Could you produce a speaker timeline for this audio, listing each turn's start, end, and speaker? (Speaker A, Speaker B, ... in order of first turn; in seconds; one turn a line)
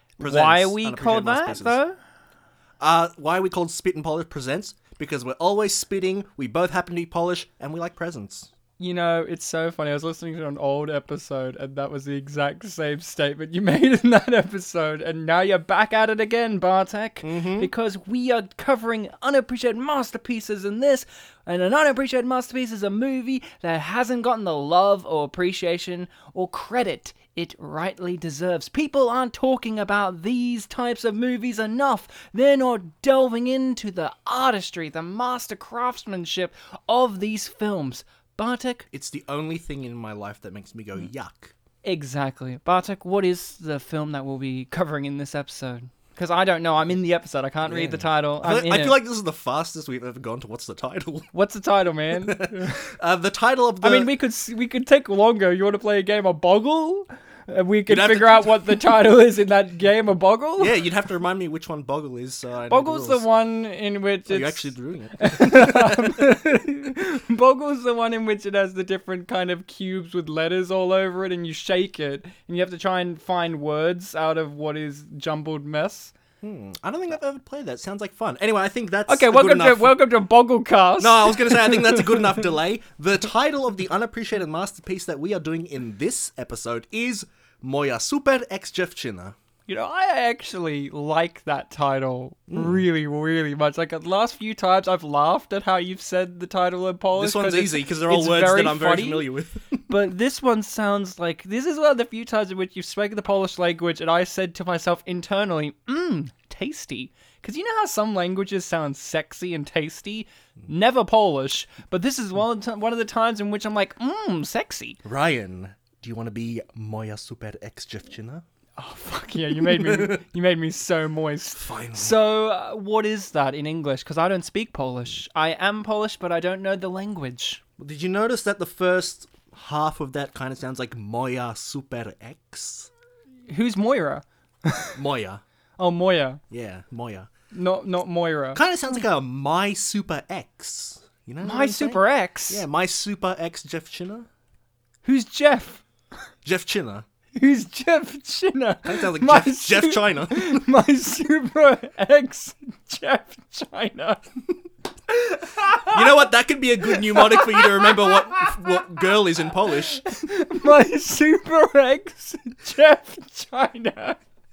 Speaker A: 0.2-1.8
Speaker B: 0.2-1.9
Speaker A: 2.8-8.5
Speaker B: 8.8-38.9
Speaker A: 17.2-17.7
Speaker A: 38.9-41.5
Speaker B: 41.8-49.0
Speaker A: 47.6-51.3
Speaker B: 51.3-52.9
Speaker A: 52.2-54.1
Speaker B: 53.8-60.7
Speaker A: 57.9-58.9
Speaker A: 60.6-63.2
Speaker B: 62.7-76.1
Speaker A: 64.3-66.3
Speaker A: 76.4-80.0
Speaker B: 79.1-82.4
Speaker A: 81.0-89.4
Speaker B: 89.7-99.3
Speaker A: 92.5-92.8
Speaker A: 97.1-99.9
Speaker B: 99.9-115.0
Speaker A: 115.0-118.4
Speaker B: 118.8-127.6
Speaker A: 119.5-120.2
Speaker A: 121.5-122.2
Speaker A: 127.8-132.9
Speaker B: 133.5-135.0
Speaker A: 135.0-135.4
Speaker B: 135.8-136.4
Speaker A: 136.5-137.3
Speaker B: 137.5-138.6
Speaker A: 138.6-144.3
Speaker B: 141.4-142.6
Speaker B: 145.1-145.8
Speaker A: 146.4-147.1
Speaker B: 147.4-154.2
Speaker A: 148.8-150.6
Speaker B: 155.1-156.3
Speaker A: 155.9-160.1
Speaker B: 156.8-158.6
Speaker B: 160.0-164.2